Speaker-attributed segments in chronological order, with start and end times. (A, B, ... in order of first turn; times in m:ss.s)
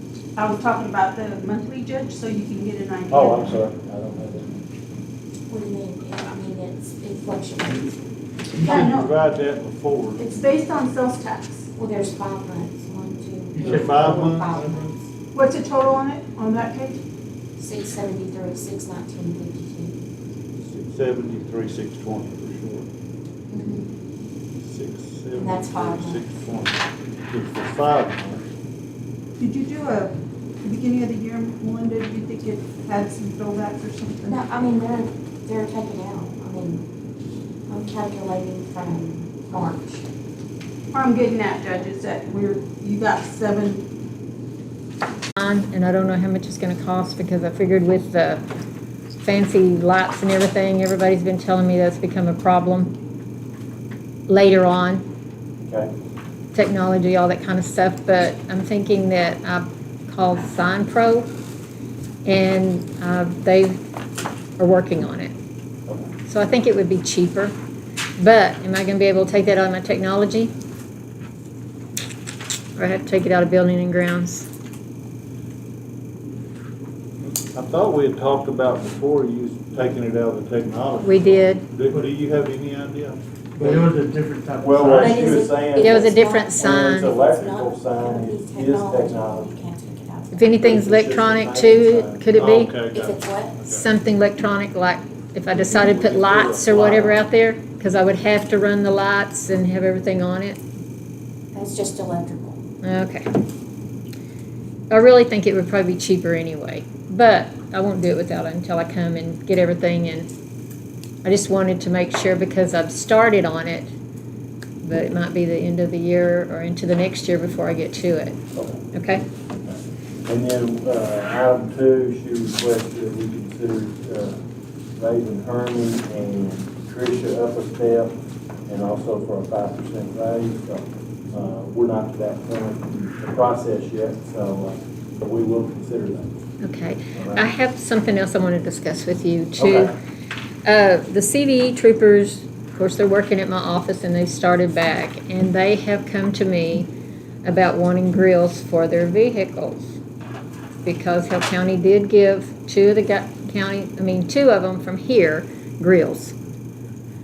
0:00.4-0:03.4 A
0:03.1-0:04.6 B
0:05.5-0:08.1 C
0:08.6-0:10.2 D
0:08.6-0:09.0 A
0:10.2-0:11.6 A
0:11.7-0:14.9 C
0:13.5-0:14.9 E
0:13.6-0:14.5 D
0:15.3-0:17.0 A
0:17.6-0:20.0 C
0:20.6-0:22.8 D
0:23.5-0:23.9 C
0:24.6-0:28.4 D
0:25.3-0:26.3 C
0:29.4-0:34.3 A
0:34.3-0:36.8 C
0:37.7-0:40.0 C
0:40.9-0:43.8 A
0:45.4-0:48.4 F
0:49.2-0:52.9 F
0:54.3-0:55.0 F
0:56.5-1:01.3 F
1:02.2-1:03.8 F
1:04.6-1:05.3 F
1:06.3-1:07.5 F
1:08.2-1:10.5 F
1:12.8-1:14.5 F
1:17.5-1:23.2 D
1:21.0-1:21.6 F
1:23.6-1:25.2 E
1:24.6-1:29.5 B
1:25.0-1:30.6 C
1:25.7-1:27.2 F
1:30.3-1:32.7 F
1:30.6-1:32.2 B
1:32.3-1:33.8 D
1:32.9-1:33.5 C
1:33.6-1:40.6 F
1:35.5-1:37.2 D
1:41.5-1:42.6 C
1:42.8-1:43.2 F
1:44.9-1:50.3 F
1:51.2-1:53.9 F
1:54.8-1:58.4 F
1:58.5-1:58.8 B
1:58.9-1:59.2 F
1:59.6-2:04.4 B
2:05.0-2:08.1 B
2:08.7-2:16.3 B
2:16.6-2:20.0 F
2:17.1-2:17.5 B
2:19.6-2:20.0 B
2:20.6-2:26.9 F
2:27.4-2:30.0 F
2:30.8-2:36.4 F